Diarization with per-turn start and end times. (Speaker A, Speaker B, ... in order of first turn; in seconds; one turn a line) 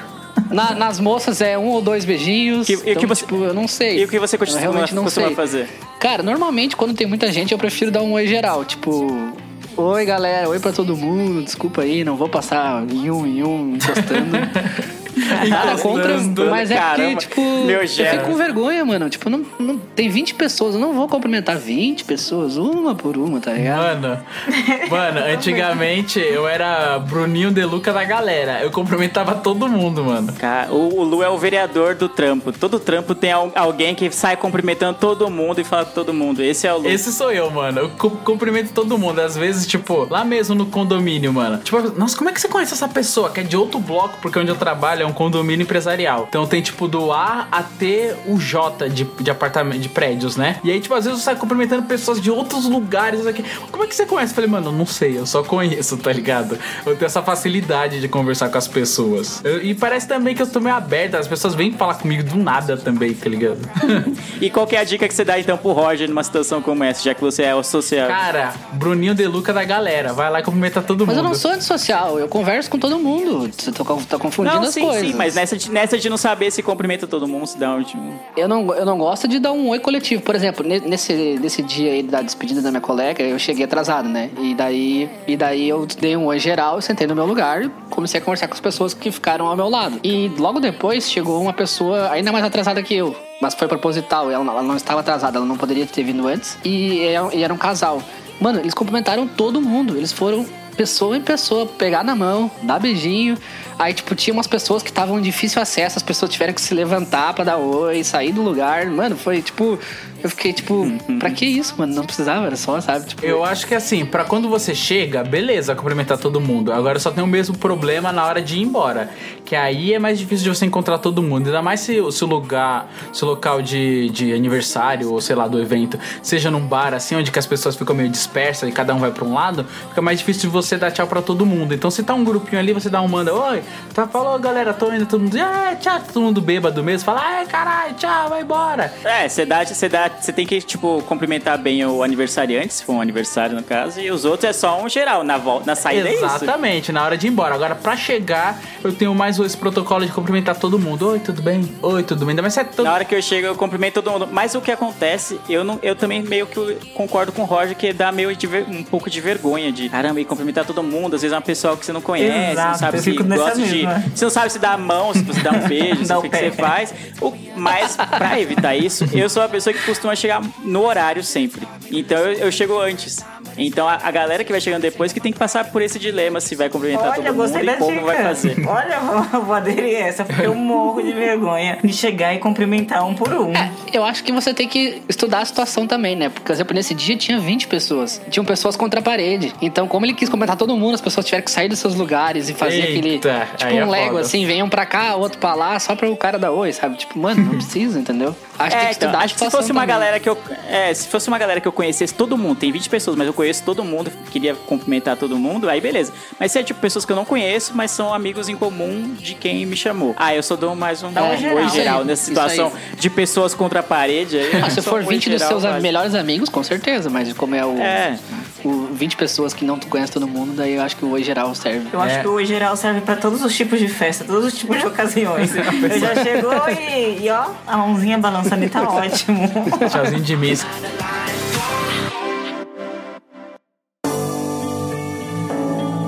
Speaker A: 0.5-5.4
Speaker B: 2.7-3.4
Speaker B: 3.9-5.7
Speaker A: 6.0-14.6
Speaker C: 13.8-16.7
Speaker B: 15.4-18.4
Speaker A: 15.4-23.9
Speaker C: 18.0-18.4
Speaker C: 23.6-24.2
Speaker D: 24.5-25.8
Speaker C: 24.8-30.4
Speaker B: 30.4-37.0
Speaker C: 36.8-64.1
Speaker B: 64.4-68.2
Speaker C: 68.1-71.4
Speaker A: 71.1-75.4
Speaker B: 74.4-78.2
Speaker A: 78.4-113.4
Speaker B: 110.8-111.4
Speaker C: 113.2-138.9
Speaker B: 139.1-146.5
Speaker C: 145.9-153.0
Speaker B: 152.8-178.6
Speaker D: 162.2-164.1
Speaker D: 166.0-166.7
Speaker D: 176.9-183.7
Speaker A: 183.5-200.1
Speaker C: 192.6-194.3
Speaker C: 197.4-197.6
Speaker B: 198.7-215.9
Speaker D: 211.2-212.0
Speaker A: 211.2-212.8
Speaker A: 214.6-218.0
Speaker B: 217.8-218.4
Speaker A: 218.6-222.0
Speaker D: 221.9-230.0
Speaker C: 222.0-222.3
Speaker C: 225.4-226.6
Speaker C: 229.8-230.7